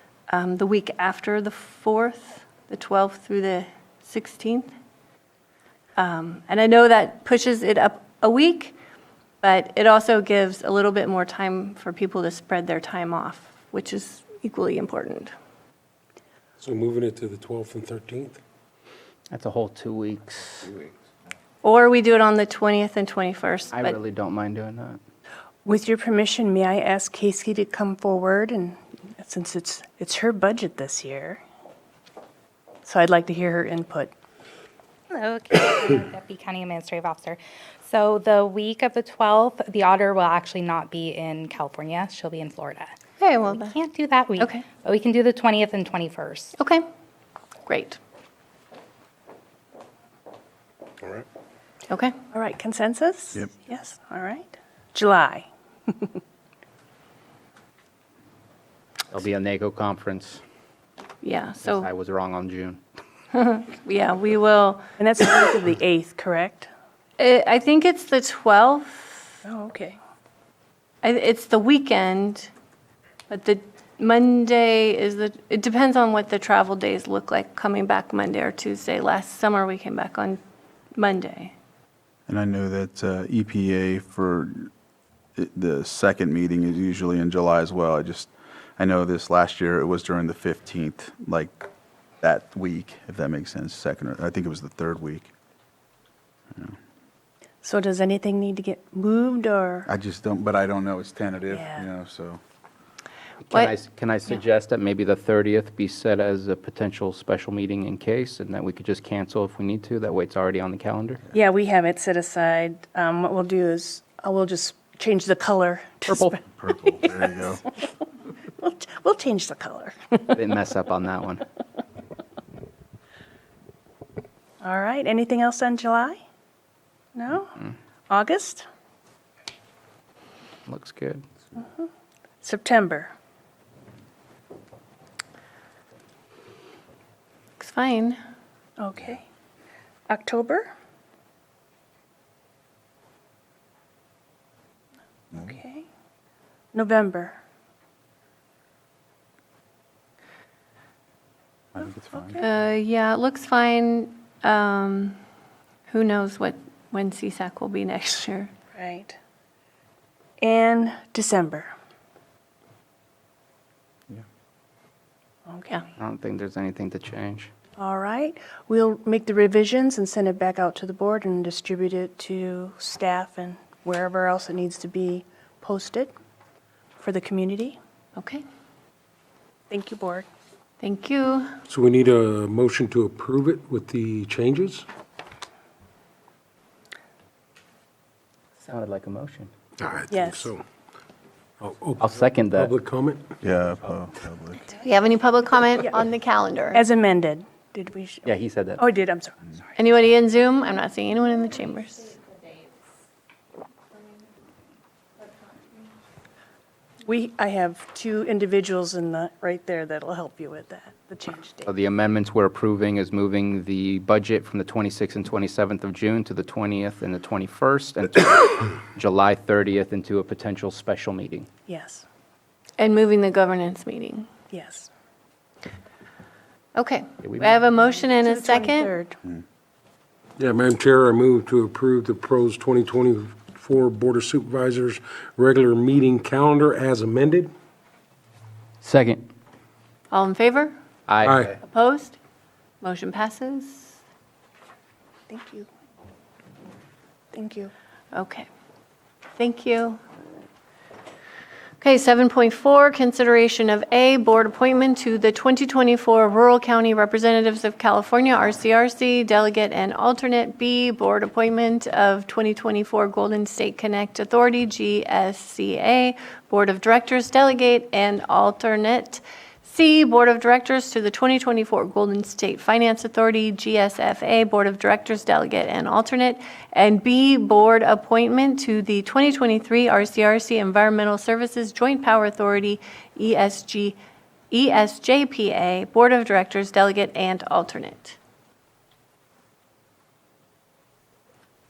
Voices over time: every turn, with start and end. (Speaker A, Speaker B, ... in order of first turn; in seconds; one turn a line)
Speaker A: 0.3-4.7
Speaker A: 6.0-8.8
Speaker A: 9.4-15.3
Speaker B: 16.6-18.4
Speaker C: 19.3-20.8
Speaker A: 21.6-24.0
Speaker C: 23.7-25.0
Speaker D: 25.6-31.4
Speaker D: 32.8-34.1
Speaker E: 35.1-42.9
Speaker A: 43.2-43.7
Speaker E: 43.5-46.5
Speaker A: 44.4-44.6
Speaker A: 46.5-46.8
Speaker A: 47.7-48.0
Speaker A: 51.9-52.1
Speaker D: 52.3-56.1
Speaker C: 59.1-60.4
Speaker A: 61.2-61.9
Speaker C: 61.6-62.8
Speaker A: 63.3-64.9
Speaker D: 65.0-66.7
Speaker A: 67.2-69.4
Speaker D: 69.5-70.0
Speaker A: 71.0-72.5
Speaker A: 73.3-80.4
Speaker A: 80.9-81.5
Speaker F: 82.3-84.7
Speaker F: 85.4-91.7
Speaker F: 92.2-95.3
Speaker D: 97.6-99.9
Speaker F: 99.9-102.4
Speaker D: 101.5-101.9
Speaker C: 103.5-111.2
Speaker D: 111.3-117.6
Speaker C: 116.1-116.3
Speaker F: 116.6-117.6
Speaker D: 118.6-120.4
Speaker C: 120.3-121.4
Speaker D: 124.6-126.2
Speaker D: 127.1-128.7
Speaker C: 130.7-131.2
Speaker D: 131.6-131.8
Speaker D: 132.4-133.1
Speaker A: 137.6-138.2
Speaker D: 138.8-139.2
Speaker D: 140.1-140.7
Speaker D: 145.3-145.8
Speaker D: 146.7-147.4
Speaker F: 151.7-152.4
Speaker D: 152.1-152.4
Speaker A: 152.4-155.2
Speaker A: 155.9-158.5
Speaker D: 158.8-159.2
Speaker D: 160.4-161.7
Speaker D: 165.5-165.8
Speaker C: 166.0-167.5
Speaker D: 167.8-176.1
Speaker D: 177.0-177.8
Speaker A: 178.2-178.4
Speaker D: 179.7-180.3
Speaker A: 180.8-181.5
Speaker B: 181.7-184.8
Speaker C: 188.6-189.5
Speaker B: 189.8-190.6
Speaker D: 190.1-190.5
Speaker B: 191.6-193.3
Speaker C: 192.0-192.7
Speaker F: 193.4-194.7
Speaker A: 194.8-196.8
Speaker D: 196.7-199.6
Speaker C: 198.2-198.8
Speaker A: 199.8-202.2
Speaker D: 207.0-211.7
Speaker C: 211.7-221.5
Speaker D: 221.7-222.0
Speaker A: 222.8-224.3
Speaker D: 224.5-224.9
Speaker A: 226.8-228.9
Speaker C: 227.2-227.5
Speaker D: 228.1-229.2
Speaker B: 230.4-237.5
Speaker C: 238.8-239.3
Speaker A: 240.1-240.7
Speaker C: 241.1-241.5
Speaker B: 241.2-241.5
Speaker A: 241.6-242.2
Speaker A: 242.8-244.0
Speaker D: 245.3-245.7
Speaker D: 247.3-247.7
Speaker A: 248.1-248.5
Speaker A: 249.4-250.0
Speaker A: 251.8-284.0
Speaker A: 284.5-288.2